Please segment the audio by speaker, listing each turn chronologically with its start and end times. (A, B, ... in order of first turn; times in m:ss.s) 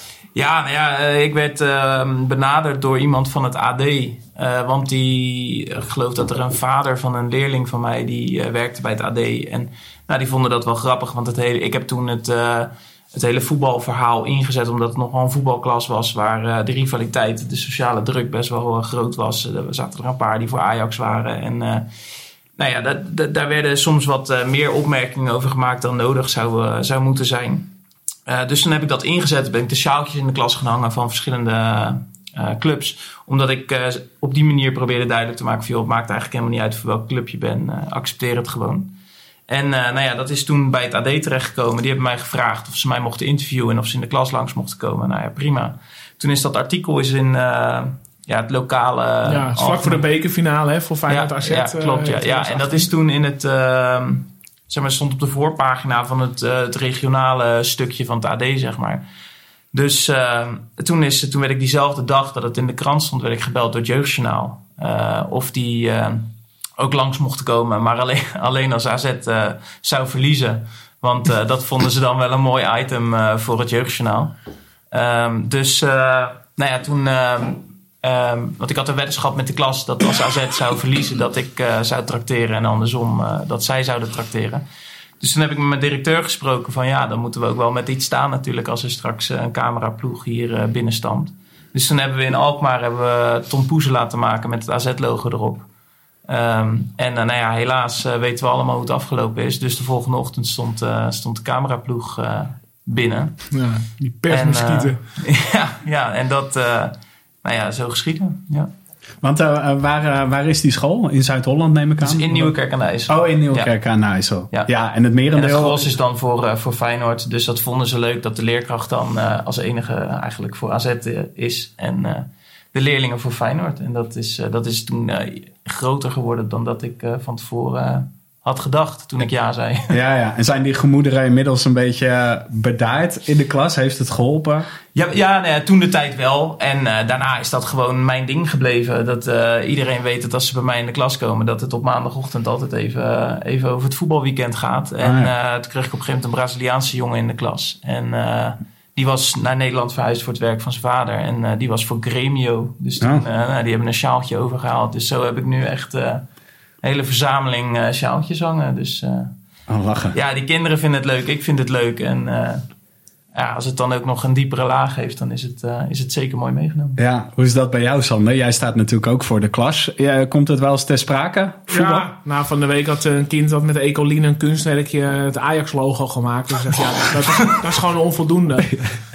0:00.3-0:21.9 A
0:22.6-0:27.7 A
0:28.2-0:38.9 A
0:39.5-0:50.0 A
0:49.2-0:52.9 B
0:51.1-0:59.0 A
0:59.7-1:14.3 A
1:14.9-1:24.6 A
1:25.2-1:35.7 A
1:36.3-1:43.5 A
1:43.5-1:45.0 B
1:44.3-1:48.7 A
1:49.2-1:52.5 C
1:52.0-1:53.7 A
1:53.0-1:55.8 C
1:55.3-2:10.0 A
2:09.9-2:14.7 C
2:14.9-2:36.2 A
2:25.0-2:25.3 C
2:36.8-2:39.3 A
2:39.7-2:40.2 C
2:40.1-2:42.6 A
2:43.3-2:47.0 A
2:47.0-2:52.1 C
2:51.7-2:58.8 B